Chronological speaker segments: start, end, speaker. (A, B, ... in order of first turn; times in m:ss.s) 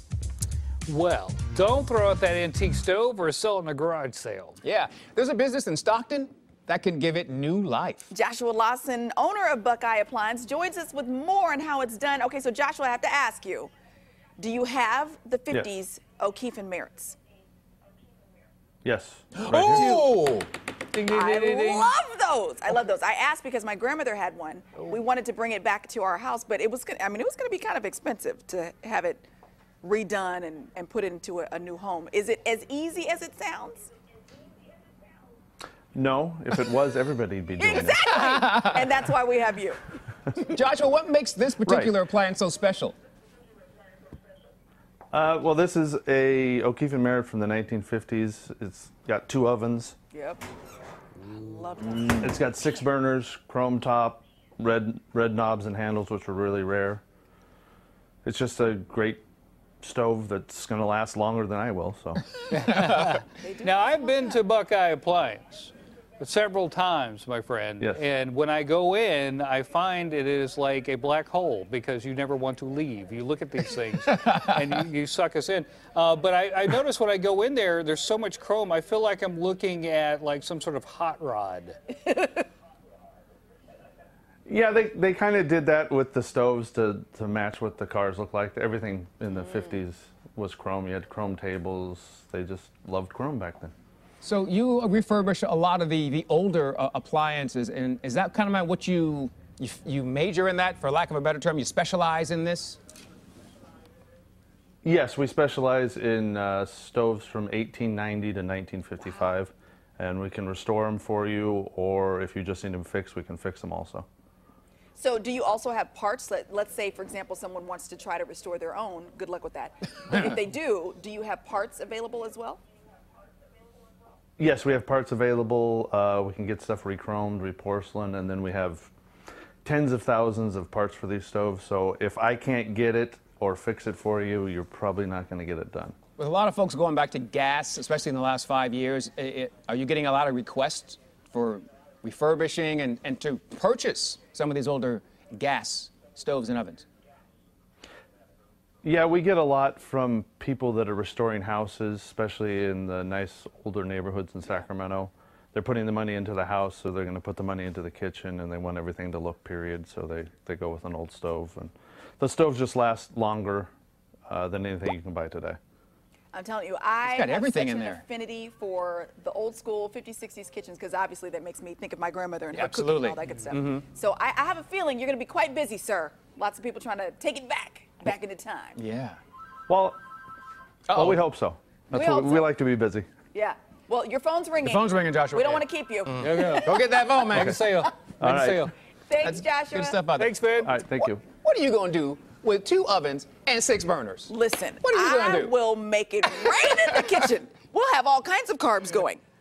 0:00.9-0:04.6 A
0:04.6-0:08.1 B
0:08.1-0:13.7 C
0:14.4-0:17.2 C
0:18.8-0:20.0 D
0:19.4-0:21.9 B
0:21.0-0:29.3 C
0:29.8-0:33.9 C
0:35.9-0:38.2 D
0:37.6-0:39.8 C
0:37.9-0:39.0 B
0:40.4-0:43.0 B
0:41.6-0:42.0 D
0:45.1-0:50.0 D
0:50.1-0:50.4 C
0:51.2-0:52.4 C
0:51.9-0:57.0 D
0:58.2-0:59.2 D
0:59.8-1:02.3 D
1:02.5-1:21.8 A
1:03.4-1:04.4 C
1:22.1-1:22.4 C
1:24.5-1:33.7 D
1:34.2-1:42.8 B
1:44.8-1:54.1 D
1:55.0-2:02.6 C
2:04.4-2:08.9 D
2:09.6-2:16.0 D
2:16.2-2:26.8 B
2:28.8-2:43.7 D
2:44.3-2:45.6 D
2:46.3-2:58.8 C
2:47.0-2:48.0 B
2:52.5-2:53.8 B
2:58.8-2:59.2 B
2:59.7-3:00.0 D
3:00.9-3:01.2 B
3:00.9-3:03.1 D
3:01.9-3:02.5 C
3:03.3-3:07.0 C
3:04.6-3:07.9 B
3:06.2-3:08.7 A
3:08.2-3:08.7 D
3:09.1-3:10.0 C
3:09.2-3:10.7 B
3:10.2-3:10.7 A
3:10.6-3:11.2 D
3:11.4-3:15.6 B
3:14.3-3:19.2 C